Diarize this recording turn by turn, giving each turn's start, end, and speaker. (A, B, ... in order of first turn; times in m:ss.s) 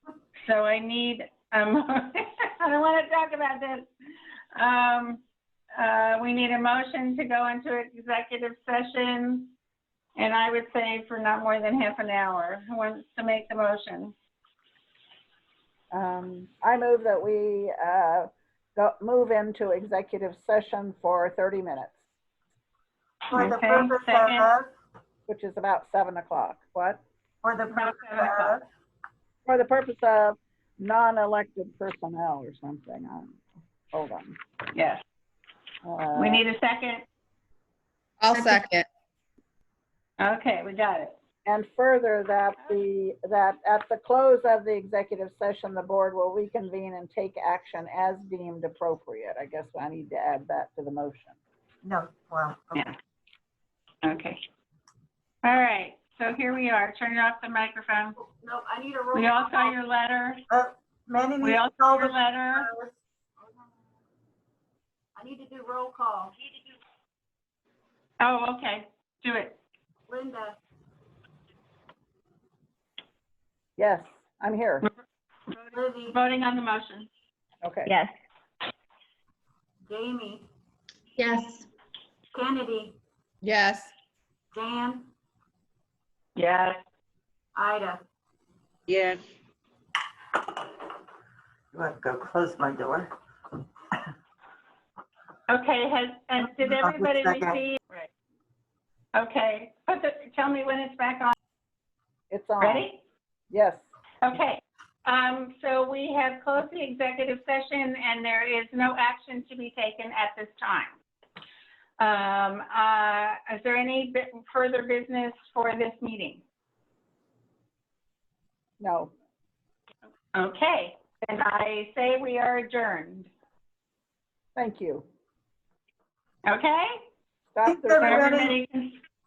0:00.4-0:03.9 A
0:04.6-0:05.2 A
0:05.8-0:09.5 A
0:10.2-0:14.1 A
0:15.9-0:22.0 B
0:23.3-0:24.5 A
0:23.3-0:24.7 C
0:25.3-0:27.0 B
0:27.4-0:28.6 C
0:27.7-0:28.6 A
0:29.4-0:33.4 B
0:33.9-0:34.4 B
0:34.7-0:35.0 A
0:35.8-0:36.4 B
0:36.2-0:37.0 A
0:38.2-0:38.9 D
0:40.2-0:41.1 A
0:41.4-0:51.4 B
0:51.8-0:52.9 C
0:54.0-0:54.4 A
0:55.4-0:58.2 A
0:58.2-0:59.7 C
0:59.1-1:00.4 A
1:00.5-1:03.7 C
1:01.4-1:02.7 A
1:05.2-1:06.4 C
1:08.2-1:09.6 A
1:10.1-1:10.6 C
1:13.8-1:14.9 B
1:15.5-1:17.1 A
1:15.7-1:16.2 C
1:17.6-1:17.9 B
1:19.9-1:20.5 C
1:21.2-1:21.6 D
1:22.3-1:23.0 C
1:23.4-1:23.9 D
1:24.5-1:25.1 C
1:26.4-1:26.8 A
1:27.5-1:28.0 C
1:28.9-1:29.2 D
1:31.7-1:33.1 C
1:35.5-1:38.1 A
1:36.8-1:37.5 C
1:39.1-1:41.3 A
1:42.3-1:42.8 B
1:42.6-1:43.0 A
1:43.5-1:43.9 B
1:44.2-1:51.0 A
1:52.0-1:56.4 A
1:58.8-1:59.1 B
2:00.3-2:03.3 A
2:04.5-2:05.0 B
2:06.4-2:07.0 A
2:07.5-2:08.5 B
2:07.6-2:08.6 C
2:08.0-2:09.0 A